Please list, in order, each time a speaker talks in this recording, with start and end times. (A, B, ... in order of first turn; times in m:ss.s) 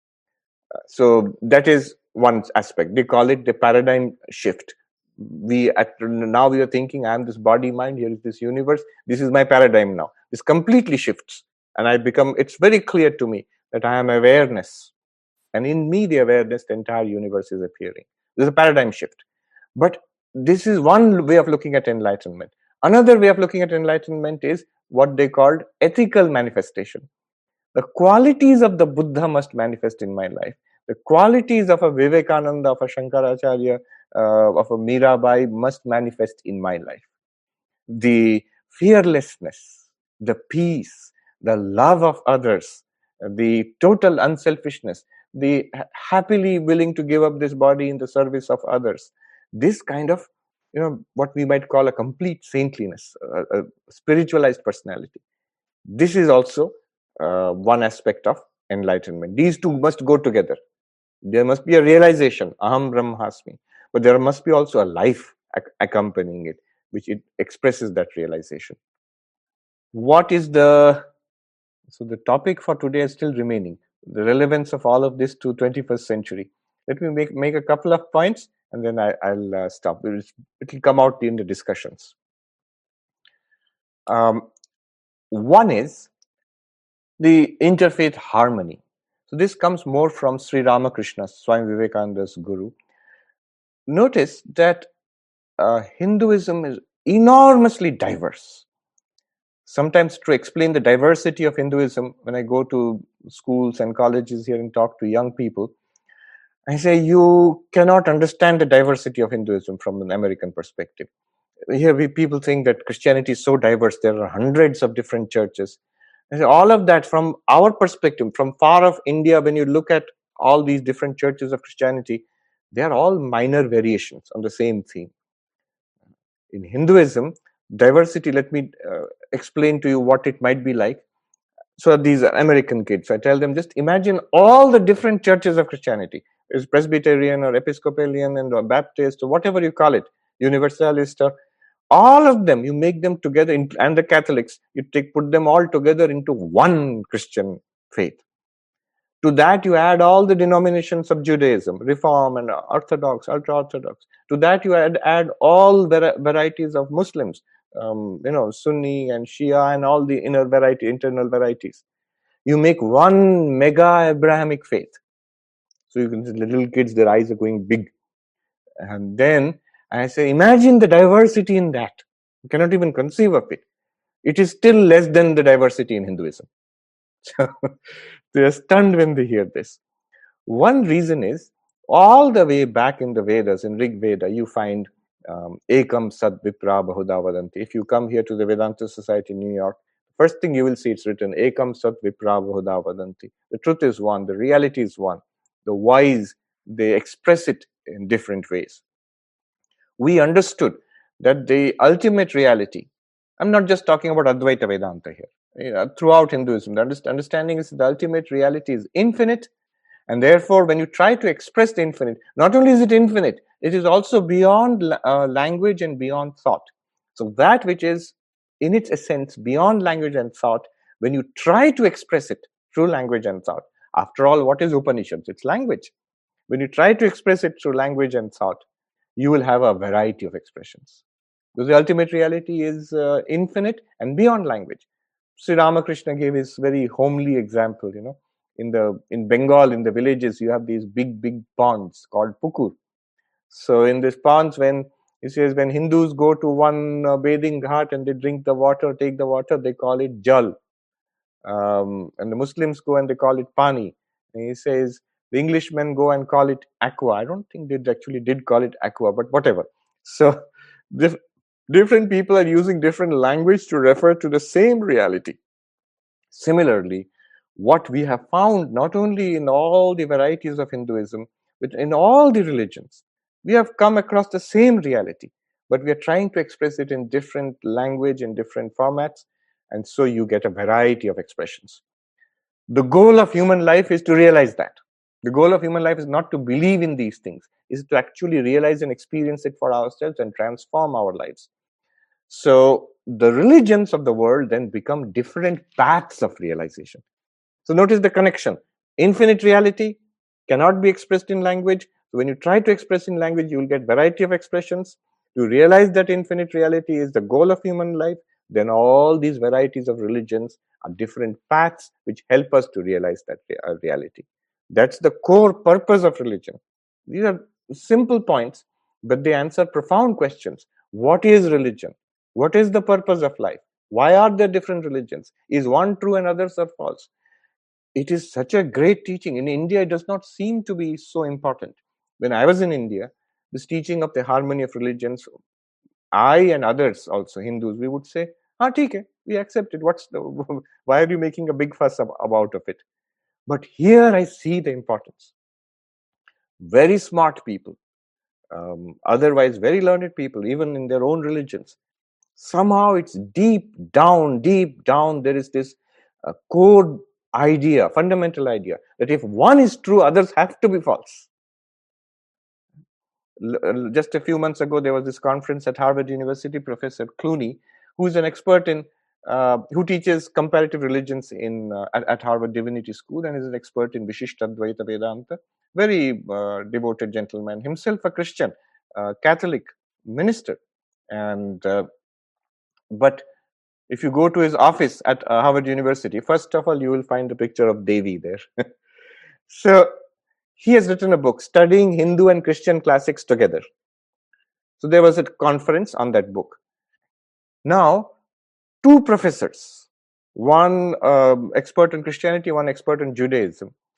0:00.9-0:14.9 A
0:15.5-0:19.2 A
0:19.8-0:27.0 A
0:27.7-0:37.0 A
0:37.9-0:55.2 A
0:55.9-1:00.6 A
1:01.2-1:08.8 A
1:09.9-1:11.0 A
1:11.9-1:22.1 A
1:24.1-1:24.5 A
1:25.3-1:26.1 A
1:27.2-1:32.7 A
1:33.9-1:34.9 A
1:35.6-1:38.6 A
1:39.6-1:45.7 A
1:46.7-1:51.1 A
1:51.7-1:55.8 A
1:56.3-2:05.1 A
2:06.5-2:11.0 A
2:11.8-2:21.3 A
2:21.9-2:28.2 A
2:29.2-2:41.8 A
2:42.4-2:45.0 A
2:45.9-2:47.9 A
2:48.8-2:53.6 A
2:54.2-2:56.5 A
2:57.2-2:57.7 A
2:58.3-2:59.8 A
3:00.4-3:18.8 A
3:20.0-3:22.9 A
3:23.4-3:29.5 A
3:30.1-3:45.9 A
3:46.5-3:48.6 A
3:49.2-3:51.0 A
3:51.6-3:54.8 A
3:55.4-4:02.8 A
4:03.5-4:10.6 A
4:11.4-4:20.4 A
4:20.9-4:21.2 A
4:21.7-4:25.4 A
4:26.3-4:41.8 A
4:42.7-4:51.5 A
4:52.3-4:57.0 A
4:57.6-5:27.1 A
5:28.0-5:35.3 A
5:36.1-5:42.8 A
5:43.5-5:45.3 A
5:46.6-5:47.8 A
5:48.5-5:51.8 A
5:52.4-6:01.3 A
6:03.4-6:20.6 A
6:21.1-6:21.9 A
6:22.9-6:23.2 A
6:23.9-6:28.4 A
6:29.5-6:29.9 A
6:30.6-6:33.6 A
6:34.8-6:36.6 A
6:37.6-6:38.1 A
6:38.8-6:43.7 A